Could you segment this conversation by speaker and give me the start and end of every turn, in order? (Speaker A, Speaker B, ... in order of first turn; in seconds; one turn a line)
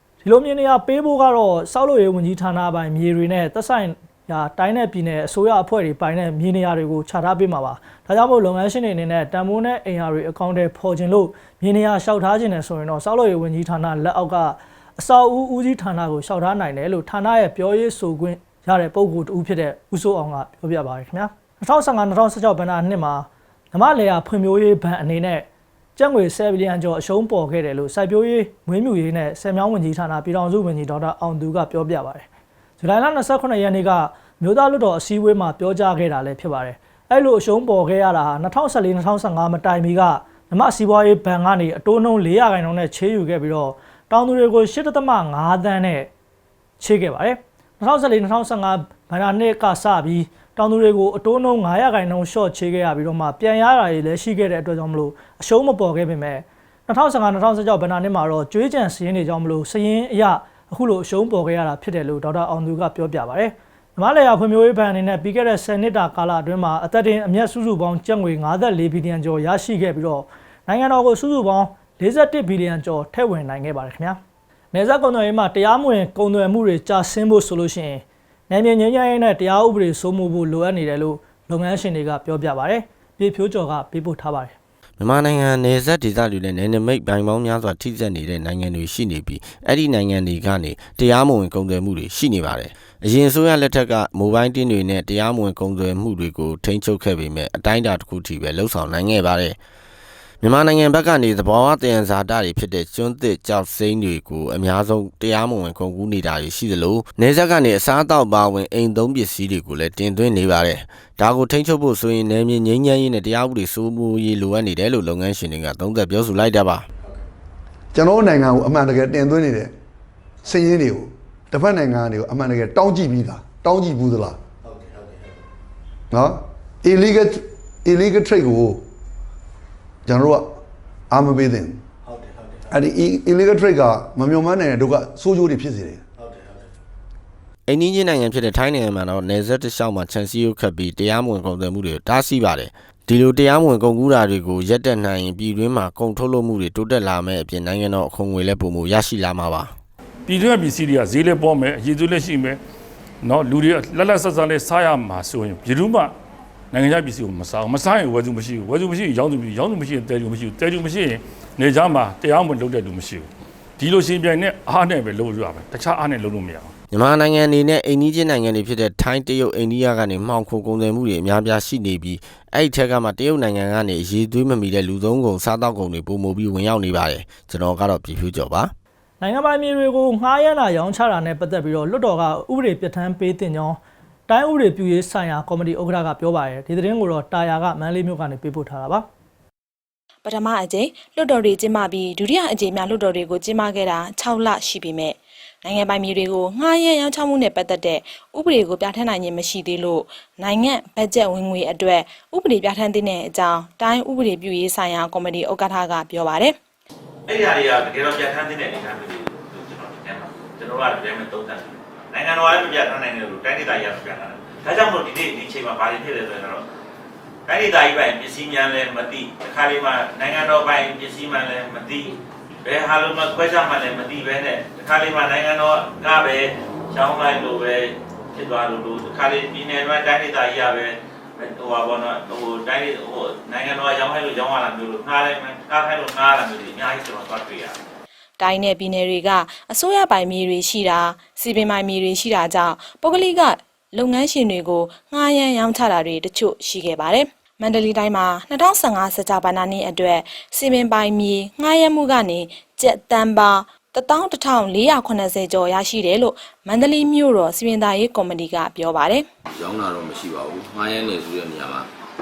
Speaker A: 0.2-32.3
Speaker A: 32.8-46.1
Speaker A: 46.8-74.2
Speaker A: 74.7-84.6
Speaker B: 85.0-99.6
Speaker B: 100.4-116.8
Speaker C: 117.9-119.7
Speaker C: 120.5-124.4
Speaker C: 126.1-128.8
Speaker C: 130.1-130.6
Speaker C: 131.1-131.8
Speaker C: 132.7-136.0
Speaker B: 137.7-149.7
Speaker D: 150.3-152.6
Speaker D: 153.2-156.1
Speaker D: 156.7-163.3
Speaker D: 163.8-166.7
Speaker B: 166.9-178.7
Speaker A: 179.2-189.1
Speaker E: 190.3-206.6
Speaker F: 207.3-216.7
Speaker F: 217.5-237.8
Speaker E: 238.4-259.3
Speaker G: 259.5-261.9